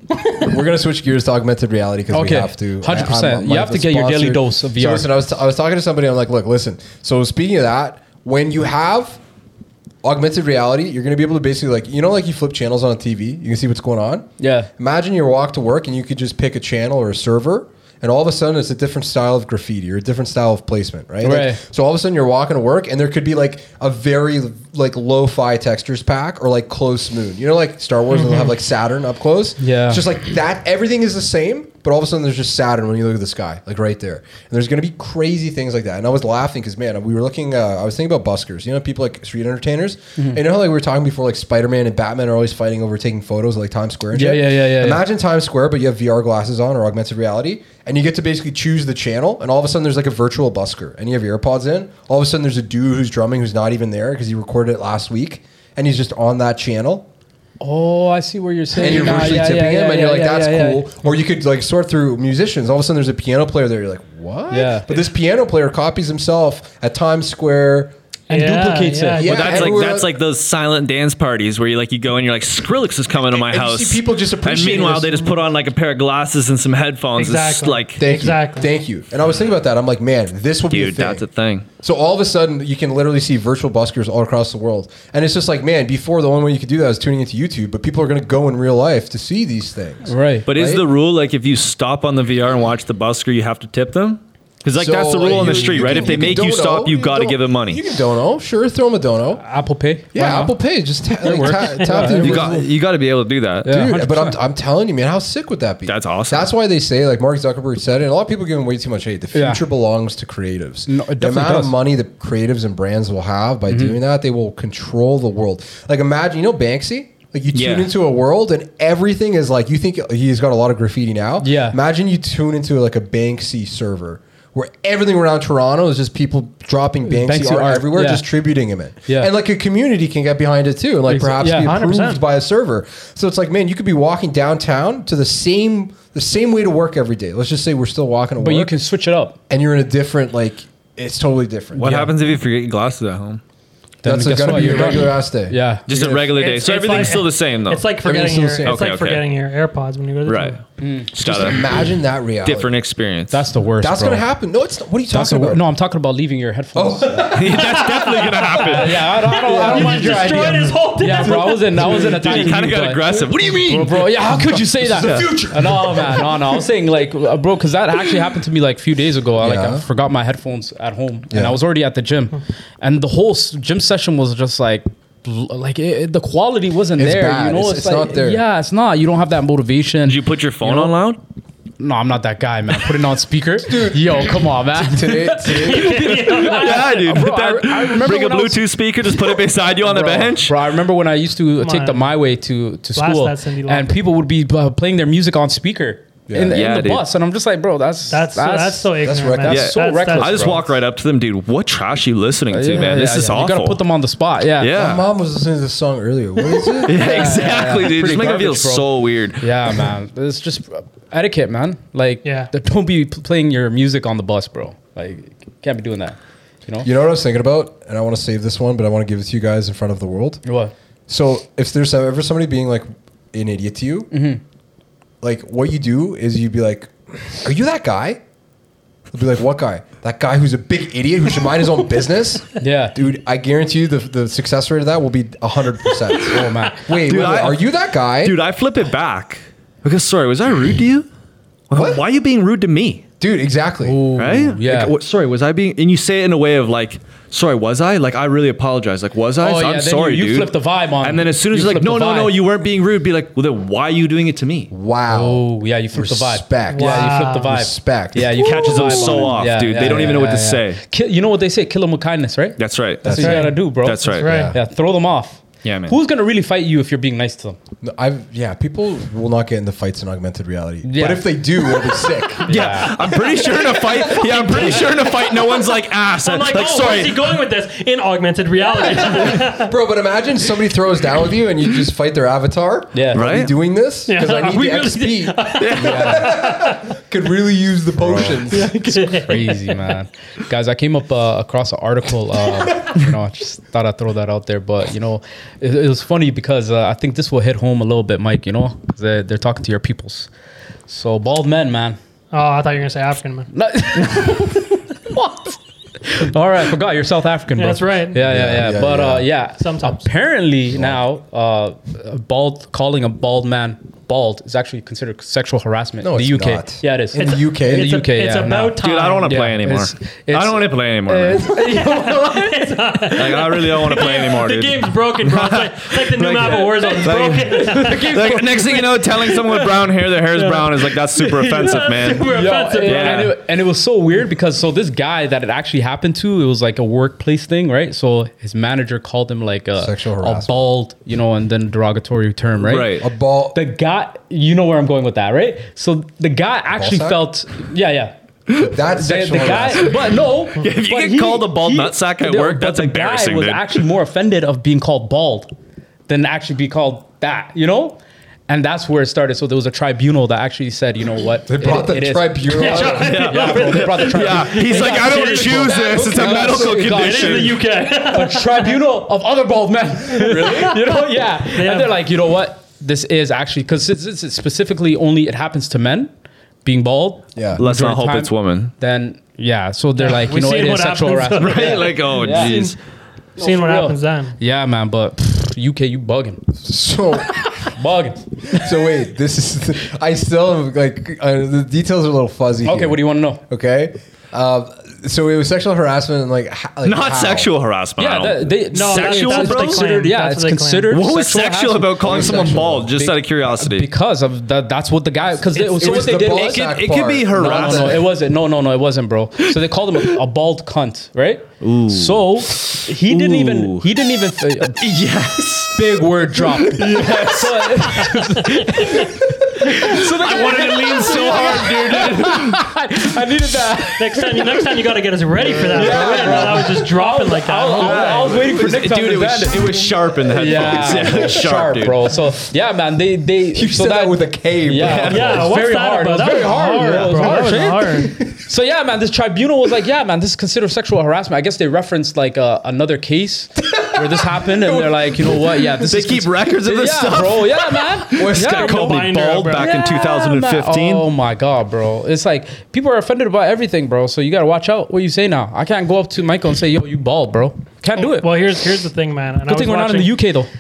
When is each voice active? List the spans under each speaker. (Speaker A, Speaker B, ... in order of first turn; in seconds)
Speaker A: 0.3-9.2, 10.0-57.1, 58.7-67.9, 69.2-70.1, 73.2-75.4, 78.0-81.2, 81.8-90.8, 94.8-99.4, 100.1-102.7, 103.7-138.7, 139.5-142.0, 144.0-146.4, 148.0-148.8, 151.2-152.8, 153.8-155.6, 156.8-157.8, 159.5-160.4, 161.8-162.4, 163.4-166.5, 169.4-169.8, 171.3-171.6, 177.0-178.4, 183.6-186.1, 196.3-196.6, 199.0-199.7, 204.7-207.3, 216.8-220.4, 221.1-224.1, 225.2-228.2, 229.1-238.4, 241.7-242.0, 243.2-244.0, 254.7-258.5, 263.0-263.5, 264.2-264.6, 267.8-272.7, 273.9-274.9, 279.0-288.8, 308.2-309.3, 310.7-311.0, 316.0-318.0, 339.8-340.6, 343.0-343.6, 346.8-347.3, 348.6-350.0, 361.5-363.1, 366.0-366.9, 370.2-370.8, 377.4-377.6, 386.6-387.7, 388.5-397.5, 402.0-402.9, 405.5-408.1, 425.8-426.5, 433.5-435.4, 436.8-437.4, 443.7-444.9
Speaker B: 2.1-5.1, 14.4-14.7, 21.2-21.6, 29.6-30.0, 44.1-45.0, 57.6-60.9, 64.5-64.9, 68.3-69.3, 90.1-90.5, 95.7-95.9, 99.4-100.6, 101.2-102.5, 103.7-104.4, 109.3-109.6, 110.9-111.8, 113.7-114.0, 121.4-121.8, 127.1-128.3, 131.1-131.7, 138.4-139.4, 141.8-142.1, 144.0-145.9, 150.8-151.1, 153.3-154.2, 155.1-157.4, 158.6-163.1, 163.6-181.0, 181.8-188.6, 189.8-200.7, 202.5-204.7, 206.9-208.8, 209.4-216.9, 220.4-220.7, 224.1-224.4, 232.6-233.0, 236.2-236.9, 243.8-244.9, 249.4-252.4, 255.1-267.6, 270.8-271.4, 272.4-273.0, 282.9-283.3, 285.8-286.3, 288.0-300.3, 300.9-302.0, 303.5-322.7, 327.5-329.3, 332.3-343.0, 343.5-348.1, 348.9-355.5, 356.1-376.1, 376.6-382.7, 383.4-386.5, 387.5-388.7, 392.6-393.4, 398.0-406.7, 407.3-414.9, 415.7-424.6, 425.6-458.3, 459.5-460.5
Speaker C: 28.1-28.5, 68.3-69.5, 77.2-78.7, 131.6-132.2, 146.3-150.6, 157.5-162.1, 185.5-187.0, 191.6-192.1, 192.9-193.9, 198.1-200.6, 212.2-212.5, 256.7-257.5, 259.0-259.3, 263.2-263.6, 264.2-264.6, 274.2-275.2, 276.2-279.7, 284.1-286.9, 288.5-289.9, 302.3-303.5, 307.6-308.2, 309.6-310.1, 317.2-319.3, 321.4-329.6, 330.3-333.3, 362.5-368.8, 370.2-371.9, 380.0-382.8, 383.4-384.4, 398.7-401.0, 418.0-419.1, 419.8-421.6, 424.0-428.4, 435.1-438.2, 448.3-449.8, 458.0-460.2
Speaker D: 69.2-78.0, 80.7-81.7, 90.5-97.8, 102.2-103.7, 105.9-106.5, 117.5-117.9, 141.8-143.4, 145.9-147.9, 148.7-149.2, 150.3-150.6, 151.1-151.6, 152.4-153.5, 157.3-159.2, 161.8-164.1, 165.0-165.4, 180.1-181.2, 186.2-190.6, 196.5-197.1, 199.5-203.8, 204.6-205.1, 206.8-209.4, 236.9-237.7, 238.2-241.1, 241.7-243.1, 244.2-254.7, 258.2-260.8, 262.6-264.3, 265.6-265.9, 272.5-277.4, 283.1-283.5, 285.6-286.3, 318.8-321.5, 323.2-332.3, 332.8-333.3, 342.6-343.1, 350.6-353.8, 362.8-367.6, 377.6-378.7, 381.4-382.8, 396.8-399.8, 400.9-403.9, 406.1-408.1, 411.6-413.9, 414.8-415.8, 416.4-418.1, 419.7-422.7, 427.8-432.1, 434.8-435.5, 445.8-451.1